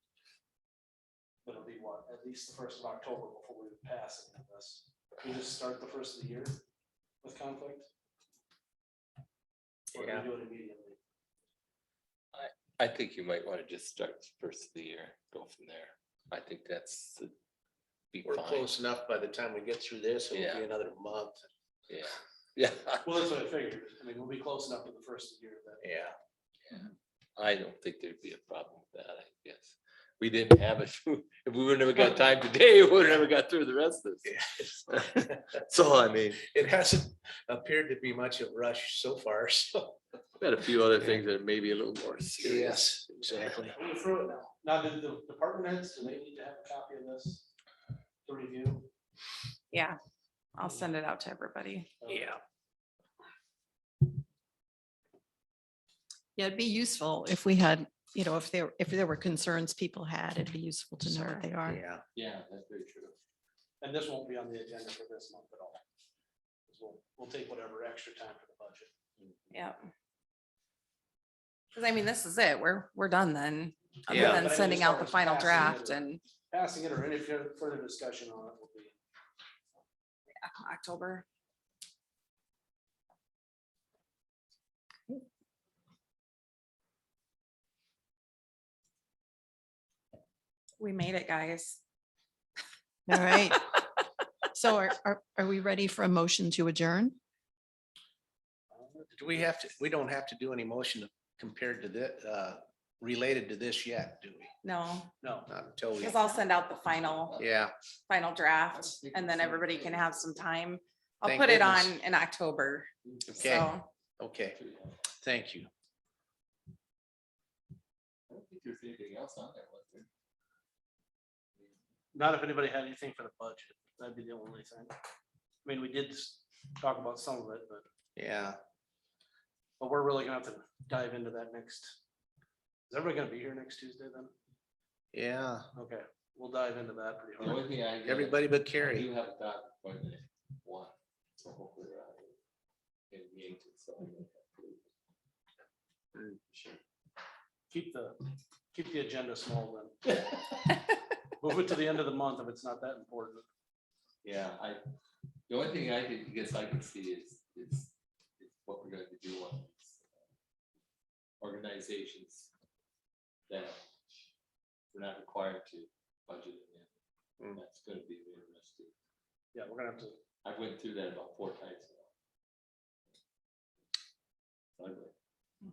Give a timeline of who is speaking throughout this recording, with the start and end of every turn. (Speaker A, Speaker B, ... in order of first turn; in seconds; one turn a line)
Speaker A: 1.4-6.6
Speaker A: 7.2-7.9
Speaker A: 9.9-11.0
Speaker B: 9.9-10.3
Speaker C: 12.3-17.3
Speaker C: 18.1-18.7
Speaker B: 18.2-21.4
Speaker C: 20.3-20.6
Speaker C: 21.9-23.1
Speaker A: 23.1-25.8
Speaker B: 25.8-26.1
Speaker C: 26.7-34.3
Speaker B: 34.2-35.5
Speaker C: 34.9-36.5
Speaker B: 36.4-40.0
Speaker C: 40.4-43.0
Speaker B: 42.4-43.7
Speaker A: 43.7-47.5
Speaker A: 48.3-48.9
Speaker D: 50.5-52.1
Speaker A: 52.0-52.4
Speaker E: 56.4-61.8
Speaker D: 61.0-61.5
Speaker B: 61.6-62.0
Speaker C: 62.1-63.1
Speaker A: 63.8-65.8
Speaker A: 66.7-68.9
Speaker D: 69.5-69.9
Speaker D: 71.7-76.2
Speaker B: 74.1-74.5
Speaker A: 74.1-79.0
Speaker D: 80.4-81.2
Speaker D: 90.8-91.8
Speaker E: 93.1-93.8
Speaker E: 94.5-97.2
Speaker A: 98.7-99.5
Speaker B: 99.1-104.5
Speaker D: 104.6-105.1
Speaker A: 105.2-105.5
Speaker B: 105.5-106.2
Speaker D: 106.0-107.4
Speaker B: 107.4-107.7
Speaker D: 108.1-113.9
Speaker C: 108.7-110.2
Speaker B: 111.2-112.0
Speaker C: 113.0-113.5
Speaker B: 113.3-114.6
Speaker C: 114.5-115.0
Speaker B: 115.2-115.7
Speaker C: 118.3-120.1
Speaker A: 122.1-124.9
Speaker A: 125.6-127.8
Speaker B: 128.2-128.6
Speaker A: 129.8-132.0
Speaker A: 132.9-134.3
Speaker B: 135.1-135.7
Speaker A: 135.8-137.6
Speaker C: 137.4-142.3
Speaker B: 137.4-139.1
Speaker C: 143.1-144.8
Speaker C: 146.5-146.8
Speaker A: 147.7-148.2
Speaker A: 148.7-150.2
Speaker A: 151.4-153.4
Speaker C: 154.2-154.8
Speaker C: 155.5-160.0
Speaker C: 161.4-162.5
Speaker C: 163.5-163.8
Speaker C: 164.9-166.9
Speaker C: 167.5-168.9
Speaker A: 169.5-170.2
Speaker C: 170.4-172.1
Speaker C: 174.8-175.1